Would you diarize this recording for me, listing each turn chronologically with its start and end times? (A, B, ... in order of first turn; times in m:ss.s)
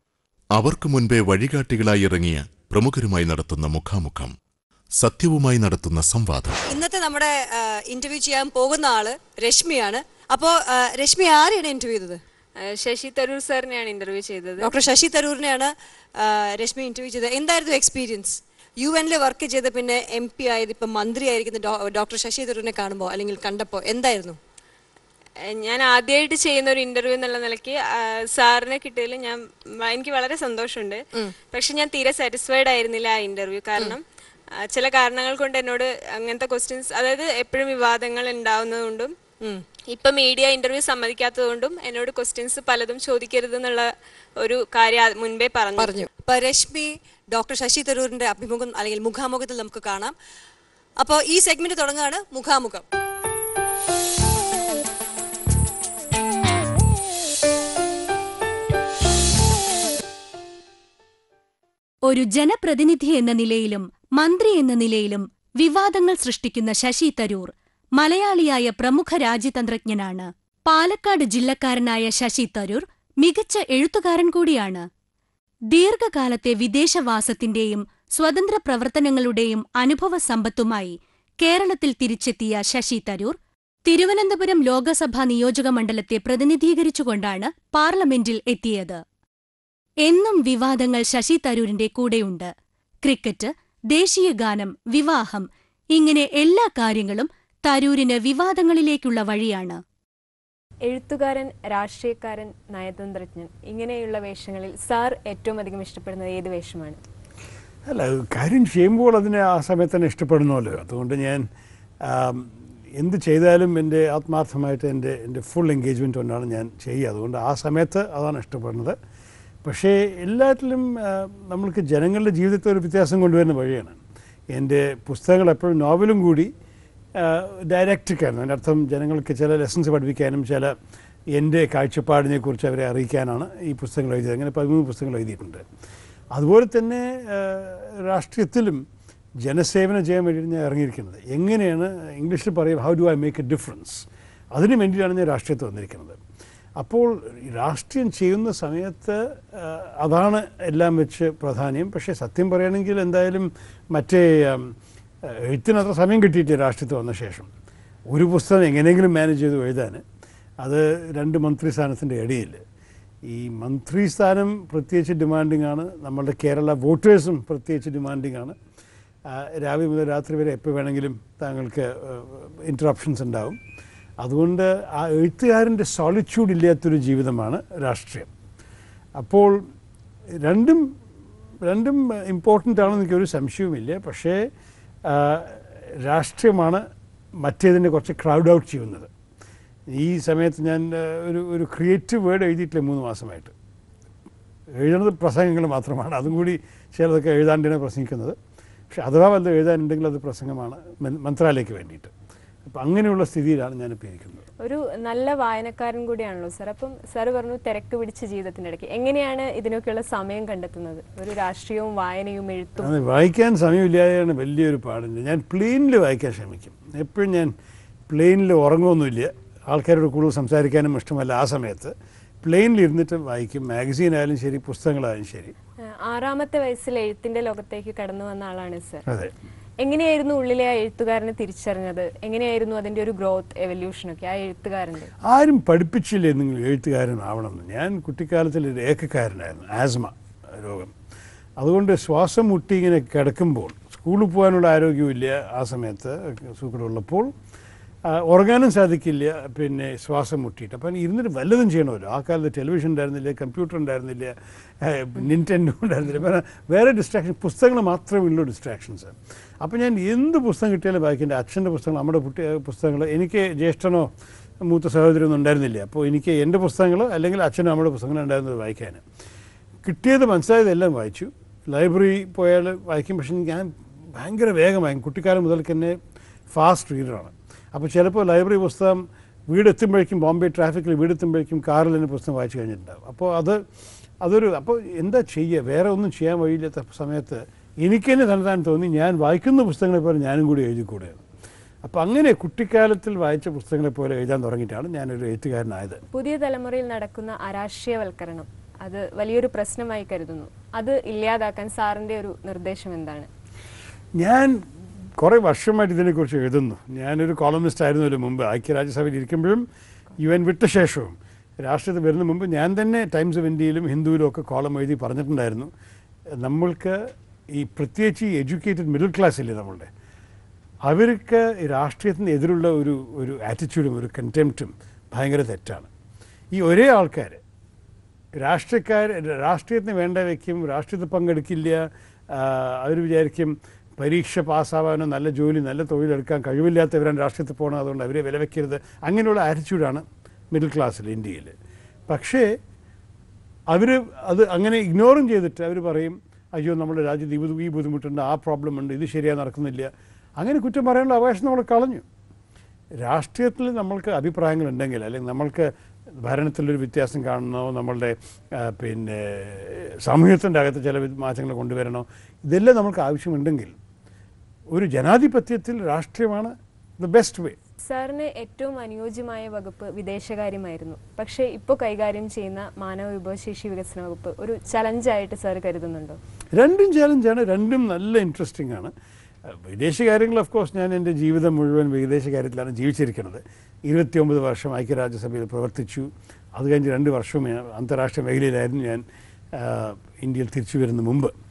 0:00.6-0:04.3 A
0:05.0-0:06.6 A
0:06.7-0:12.2 B
0:12.6-0:14.8 C
0:14.6-0:24.4 B
0:25.5-0:31.0 C
0:31.5-0:34.0 C
0:34.6-0:39.1 C
0:39.9-0:46.1 C
0:45.8-0:50.1 B
0:51.0-0:52.8 B
1:02.1-1:14.9 D
1:15.7-1:29.0 D
1:30.0-1:32.5 D
1:33.0-1:39.8 D
1:40.9-1:47.0 C
1:47.9-1:51.5 E
1:52.1-1:59.0 E
1:59.6-2:04.0 E
2:04.5-2:06.5 E
2:07.2-2:10.8 E
2:11.3-2:15.6 E
2:16.3-2:18.8 E
2:19.4-2:26.2 E
2:26.8-2:34.7 E
2:35.3-2:37.5 E
2:38.1-2:40.0 E
2:40.6-2:42.6 E
2:43.3-2:48.6 E
2:49.3-2:53.6 E
2:54.2-2:58.3 E
2:59.2-2:59.6 E
3:00.4-3:00.8 E
3:01.6-3:04.4 E
3:05.1-3:06.8 E
3:07.4-3:09.1 E
3:09.9-3:13.5 E
3:14.8-3:18.4 E
3:18.9-3:22.1 E
3:22.7-3:24.4 E
3:24.6-3:32.9 C
3:32.8-3:37.5 E
3:38.1-3:45.5 E
3:46.0-3:49.0 C
3:49.1-3:49.3 E
3:49.8-3:55.1 C
3:55.2-4:00.9 E
4:01.6-4:07.3 E
4:08.1-4:24.1 E
4:24.6-4:29.0 E
4:29.8-4:36.0 E
4:36.5-4:43.6 E
4:44.2-4:51.2 E
4:51.8-4:56.0 E
4:56.1-5:03.3 C
5:04.2-5:04.6 E
5:05.2-5:09.6 E
5:10.2-5:15.7 E
5:16.4-5:17.0 E
5:17.5-5:19.9 E
5:20.9-5:25.9 E
5:26.5-5:27.4 E
5:28.4-5:41.5 E
5:42.1-5:42.5 E
5:43.7-5:52.0 E
5:53.0-6:03.8 E
6:04.7-6:07.6 E
6:07.8-6:16.2 C
6:16.5-6:18.9 E
6:19.5-6:29.0 E
6:29.6-6:31.3 E